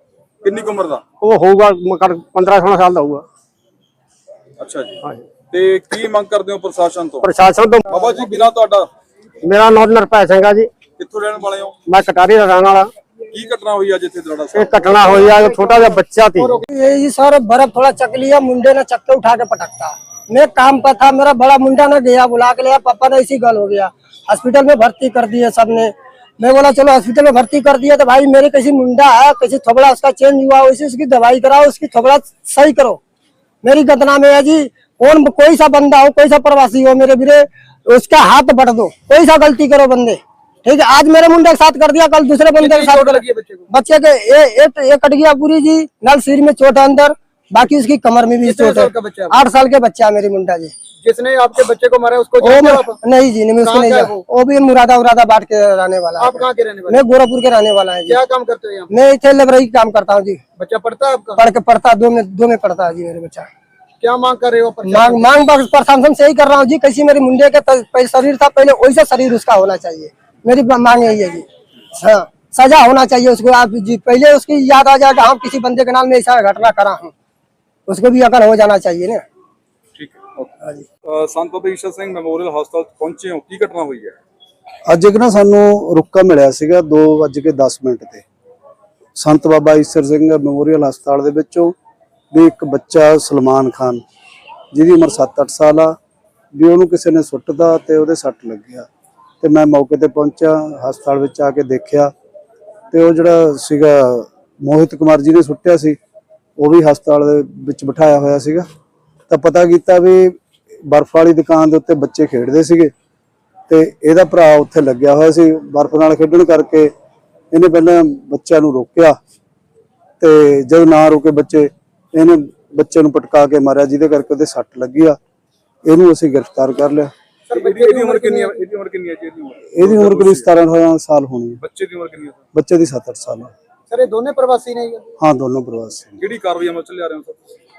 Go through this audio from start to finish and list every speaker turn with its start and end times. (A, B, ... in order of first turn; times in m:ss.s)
0:00.4-0:01.0 A
0:01.2-0:03.2 B
0:04.6-0:05.0 A
0:05.5-0:07.3 A
0:07.2-0:07.8 B
0:07.9-0:08.9 A
0:09.4-0:10.7 B
0:11.0-0:11.7 A
0:11.9-0:12.9 B
0:13.3-0:15.3 A
0:14.5-0:16.6 B
0:15.4-0:16.6 C
0:16.7-0:33.0 D
0:33.6-0:50.7 D
0:42.7-0:43.6 C
0:48.5-0:49.2 C
0:51.0-0:52.9 C
0:52.4-0:58.2 D
0:53.7-0:54.1 C
0:56.2-0:56.9 C
0:58.1-0:58.8 C
0:58.9-1:00.4 D
1:00.6-1:01.3 C
1:01.4-1:03.5 D
1:04.0-1:05.2 C
1:04.8-1:17.1 D
1:17.9-1:19.2 D
1:20.0-1:20.5 A
1:21.1-1:24.2 A
1:24.9-1:28.2 E
1:29.2-1:31.7 E
1:32.3-1:34.0 E
1:34.7-1:35.9 E
1:36.6-1:38.9 E
1:39.4-1:42.1 E
1:42.9-1:46.0 E
1:46.6-1:48.6 E
1:49.3-1:50.3 E
1:50.9-1:52.9 E
1:53.7-1:56.9 E
1:57.5-1:59.2 E
2:00.2-2:05.2 E
2:05.8-2:07.1 E
2:07.5-2:10.4 A
2:07.5-2:08.4 C
2:09.7-2:11.6 E
2:11.6-2:12.4 A
2:12.5-2:13.5 E
2:13.9-2:15.0 C
2:15.2-2:16.2 E
2:16.2-2:17.4 A